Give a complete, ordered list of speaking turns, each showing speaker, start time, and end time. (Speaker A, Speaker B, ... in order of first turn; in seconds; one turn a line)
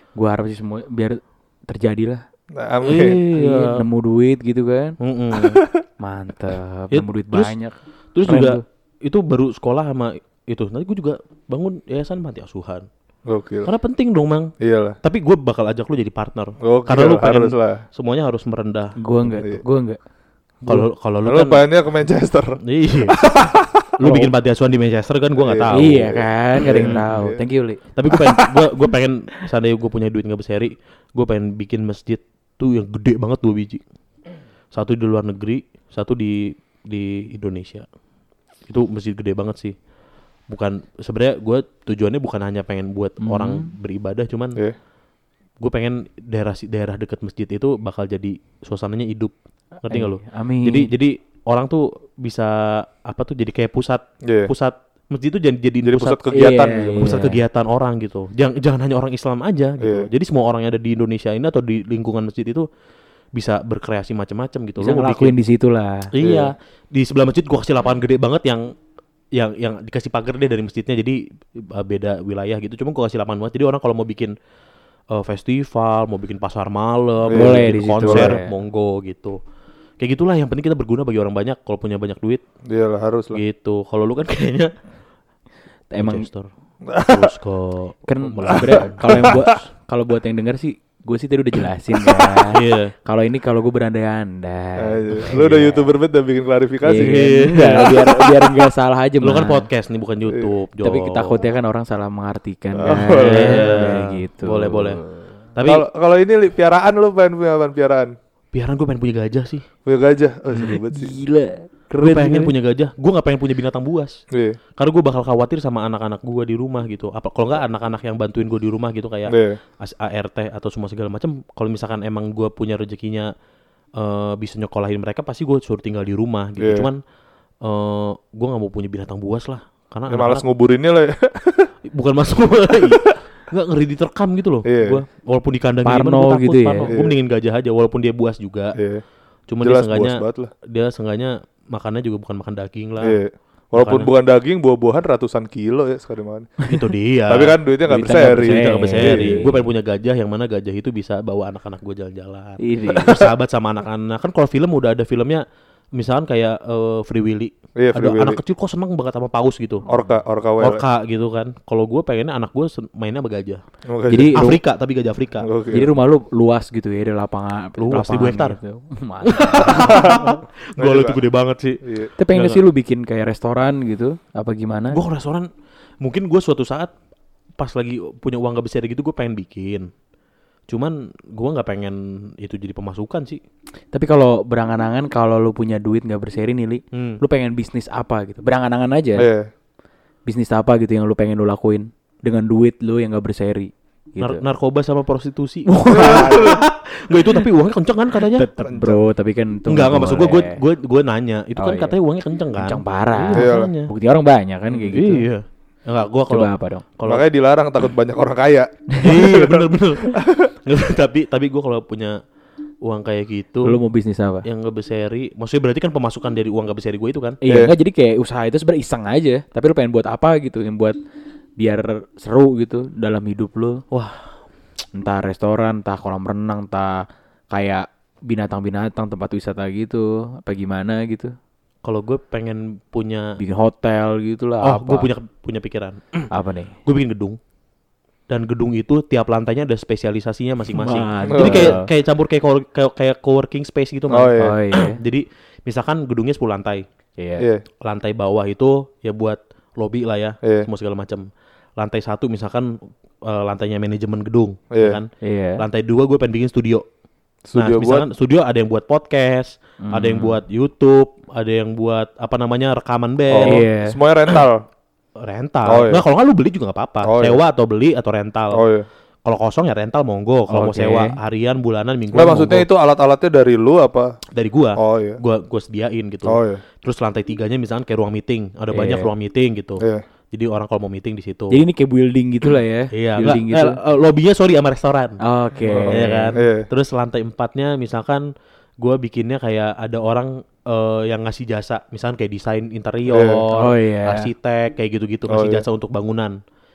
Speaker A: 0.2-2.2
Speaker B: 2.5-3.2
Speaker C: 2.8-3.8
Speaker A: 3.4-5.0
Speaker C: 5.0-5.6
Speaker B: 5.4-5.8
Speaker A: 6.0-8.6
Speaker C: 6.9-7.5
Speaker C: 8.1-12.9
Speaker B: 13.3-13.7
Speaker C: 13.7-18.9
Speaker B: 14.6-15.0
Speaker B: 16.6-17.8
Speaker A: 19.0-20.0
Speaker B: 19.3-19.6
Speaker C: 20.7-21.7
Speaker B: 21.2-24.1
Speaker C: 22.6-23.2
Speaker C: 24.0-25.9
Speaker B: 25.4-27.4
Speaker A: 25.7-28.5
Speaker C: 26.6-27.0
Speaker C: 27.9-33.8
Speaker C: 34.7-37.9
Speaker C: 38.7-39.7
Speaker C: 40.5-44.6
Speaker A: 43.2-43.7
Speaker C: 45.6-49.3
Speaker C: 49.9-62.7
Speaker A: 49.9-50.9
Speaker B: 54.2-54.5
Speaker B: 55.8-57.1
Speaker A: 56.3-57.4
Speaker B: 59.8-60.1
Speaker C: 63.3-65.3
Speaker A: 64.8-66.1
Speaker C: 66.1-68.7
Speaker B: 66.2-66.5
Speaker C: 69.3-74.3
Speaker C: 75.1-79.4
Speaker B: 77.3-78.4
Speaker A: 77.3-78.5
Speaker C: 80.0-82.4
Speaker B: 82.7-83.4
Speaker C: 83.3-84.7
Speaker A: 85.9-86.3
Speaker C: 86.0-86.5
Speaker B: 86.9-87.3
Speaker C: 87.0-89.6
Speaker A: 88.1-95.8
Speaker B: 88.5-89.5
Speaker C: 92.5-92.9
Speaker B: 94.8-97.3
Speaker A: 96.8-99.7
Speaker C: 96.9-98.3
Speaker C: 99.2-101.5
Speaker B: 100.3-100.5
Speaker A: 100.8-105.2
Speaker B: 102.8-103.9
Speaker C: 103.1-105.0
Speaker C: 105.5-105.8
Speaker B: 105.6-108.1
Speaker C: 108.5-109.6
Speaker B: 109.9-111.1
Speaker C: 110.5-110.8
Speaker A: 110.9-112.5
Speaker C: 112.0-114.2
Speaker B: 114.3-114.6
Speaker C: 114.8-123.3
Speaker B: 119.3-119.6
Speaker C: 124.0-127.0
Speaker B: 126.6-126.9
Speaker C: 127.6-130.4
Speaker B: 130.1-131.7
Speaker C: 131.9-138.8
Speaker B: 132.8-133.2
Speaker B: 134.7-135.0
Speaker A: 135.8-136.9
Speaker B: 136.9-137.2
Speaker B: 138.7-139.0
Speaker C: 139.5-143.2
Speaker B: 139.6-140.5
Speaker B: 143.0-146.6
Speaker C: 143.7-144.1
Speaker C: 146.7-159.9
Speaker B: 147.3-149.5
Speaker A: 147.9-149.7
Speaker A: 152.6-153.2
Speaker B: 157.8-158.4
Speaker B: 159.9-160.8
Speaker C: 160.6-163.6
Speaker B: 163.9-164.4
Speaker A: 164.1-164.6
Speaker C: 164.3-165.5
Speaker B: 165.4-165.9
Speaker A: 165.7-170.2
Speaker C: 167.8-168.6
Speaker C: 169.2-172.6
Speaker B: 169.7-171.2
Speaker B: 171.8-172.1
Speaker A: 172.2-175.0
Speaker C: 174.9-175.5
Speaker C: 176.0-176.9
Speaker C: 177.6-179.9
Speaker C: 180.7-183.4
Speaker A: 183.9-189.3
Speaker C: 186.9-187.2
Speaker B: 189.2-189.5
Speaker A: 190.3-194.4
Speaker C: 194.2-198.5
Speaker A: 195.7-196.6
Speaker B: 195.9-196.6
Speaker A: 198.3-200.6
Speaker B: 198.6-199.0
Speaker C: 199.7-203.9
Speaker A: 201.6-201.9
Speaker A: 202.6-205.3
Speaker B: 203.3-203.7
Speaker C: 204.7-207.2
Speaker A: 206.3-206.9
Speaker B: 207.0-210.5
Speaker C: 209.0-212.2
Speaker C: 212.8-213.8
Speaker A: 213.6-214.4
Speaker C: 214.4-217.4
Speaker A: 217.4-221.0
Speaker B: 217.4-217.7
Speaker A: 221.6-223.8
Speaker C: 223.9-224.4
Speaker A: 224.9-231.3
Speaker C: 231.8-233.4
Speaker A: 233.4-235.1
Speaker C: 234.6-236.3
Speaker A: 236.3-236.8
Speaker C: 236.9-237.4
Speaker C: 238.3-246.8
Speaker A: 240.7-241.9
Speaker B: 241.3-241.8
Speaker B: 244.1-244.6
Speaker A: 244.4-245.0
Speaker A: 247.2-247.5
Speaker B: 247.4-247.6
Speaker C: 247.8-251.3
Speaker B: 250.4-250.7
Speaker C: 251.8-256.8
Speaker B: 254.7-255.0
Speaker A: 255.2-255.6
Speaker B: 257.5-258.1
Speaker C: 257.6-263.6
Speaker A: 259.8-260.4
Speaker B: 263.3-264.6
Speaker A: 263.4-264.0
Speaker C: 265.2-268.6
Speaker B: 265.6-266.0
Speaker B: 267.0-267.4
Speaker B: 268.5-268.9
Speaker C: 269.2-272.7
Speaker A: 270.5-271.2
Speaker B: 272.1-274.1
Speaker C: 274.3-281.6
Speaker B: 274.8-275.2
Speaker B: 276.2-276.6
Speaker A: 278.7-279.1
Speaker A: 281.5-283.8
Speaker C: 282.9-285.2
Speaker A: 285.2-286.4
Speaker B: 285.7-286.7
Speaker C: 285.9-288.2
Speaker C: 288.8-296.4
Speaker B: 293.1-293.4
Speaker A: 293.5-294.3
Speaker B: 295.3-295.6